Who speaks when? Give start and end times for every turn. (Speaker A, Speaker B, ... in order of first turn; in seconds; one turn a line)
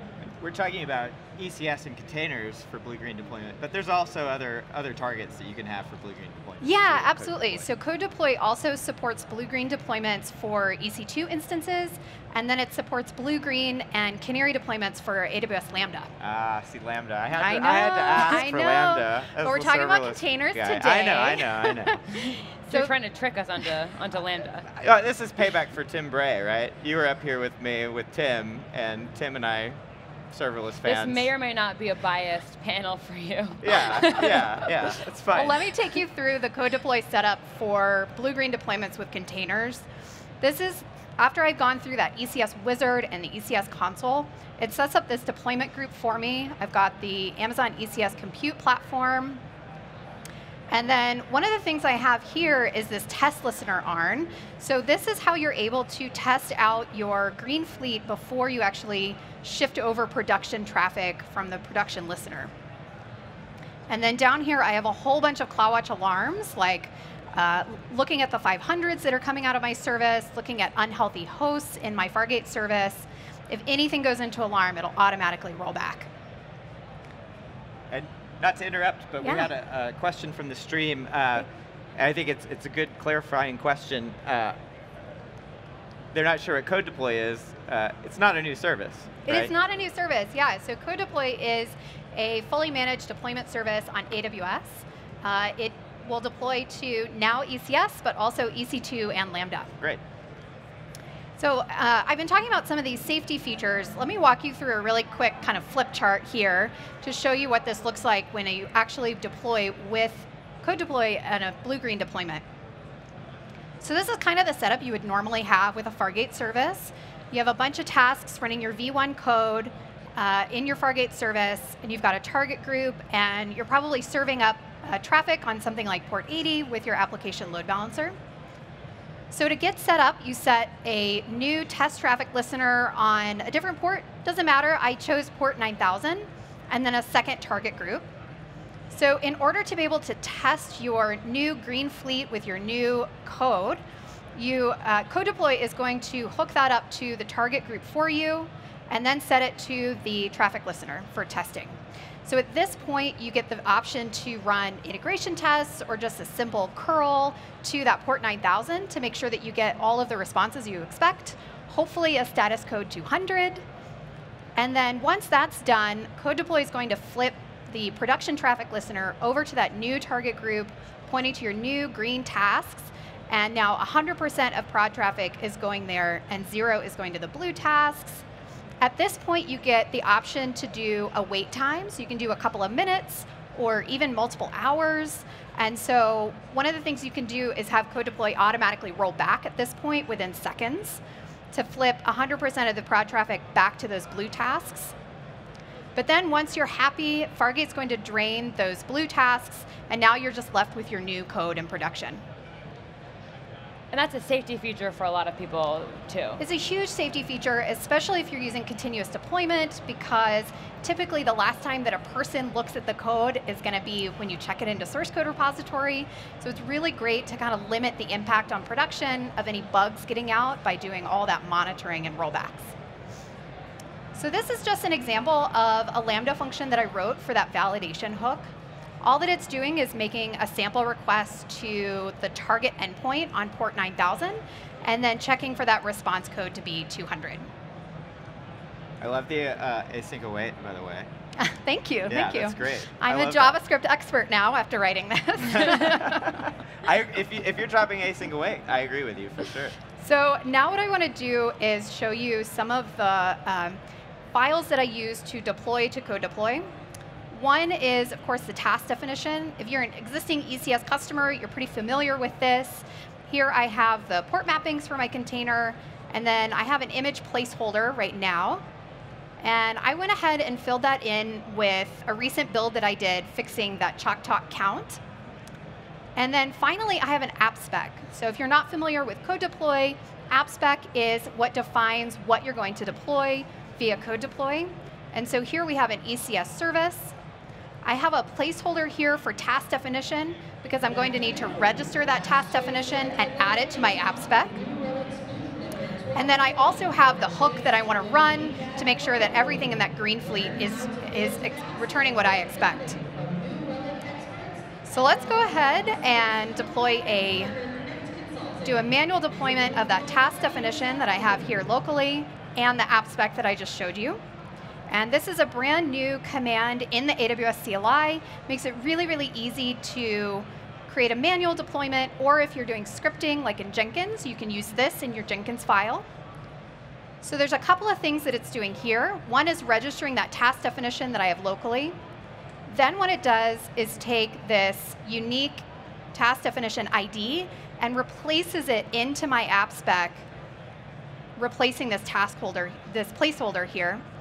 Speaker A: 0.2-7.6
Speaker B: 6.6-16.1
Speaker A: 16.2-22.0
Speaker B: 17.4-22.9
Speaker C: 22.7-24.7
Speaker A: 24.7-29.8
Speaker A: 30.3-31.3
Speaker C: 30.9-34.7
Speaker A: 33.6-35.7
Speaker B: 35.3-39.9
Speaker B: 40.4-49.4
Speaker B: 50.7-62.5
Speaker B: 63.9-76.1
Speaker A: 77.9-84.6
Speaker B: 79.2-79.5
Speaker A: 86.1-89.5
Speaker B: 89.3-99.7
Speaker B: 101.4-112.4
Speaker B: 113.8-128.2
Speaker B: 129.3-138.1
Speaker B: 138.9-143.8
Speaker B: 144.4-163.6
Speaker B: 164.6-178.2
Speaker B: 178.8-191.0
Speaker B: 191.5-194.9
Speaker B: 196.0-202.2
Speaker C: 203.9-206.4
Speaker B: 206.4-222.7
Speaker B: 224.2-228.5
Speaker B: 229.0-237.5
Speaker A: 239.0-241.1
Speaker B: 241.4-246.4
Speaker A: 242.1-243.6
Speaker A: 245.6-249.8
Speaker B: 250.0-253.8
Speaker B: 254.3-256.7
Speaker B: 257.3-268.6
Speaker B: 269.4-275.0
Speaker B: 276.2-287.1
Speaker B: 287.9-294.6
Speaker B: 296.1-303.0
Speaker B: 304.9-307.5
Speaker B: 308.6-314.2
Speaker B: 314.9-326.1
Speaker B: 327.2-332.0
Speaker B: 332.7-340.2
Speaker B: 341.4-344.0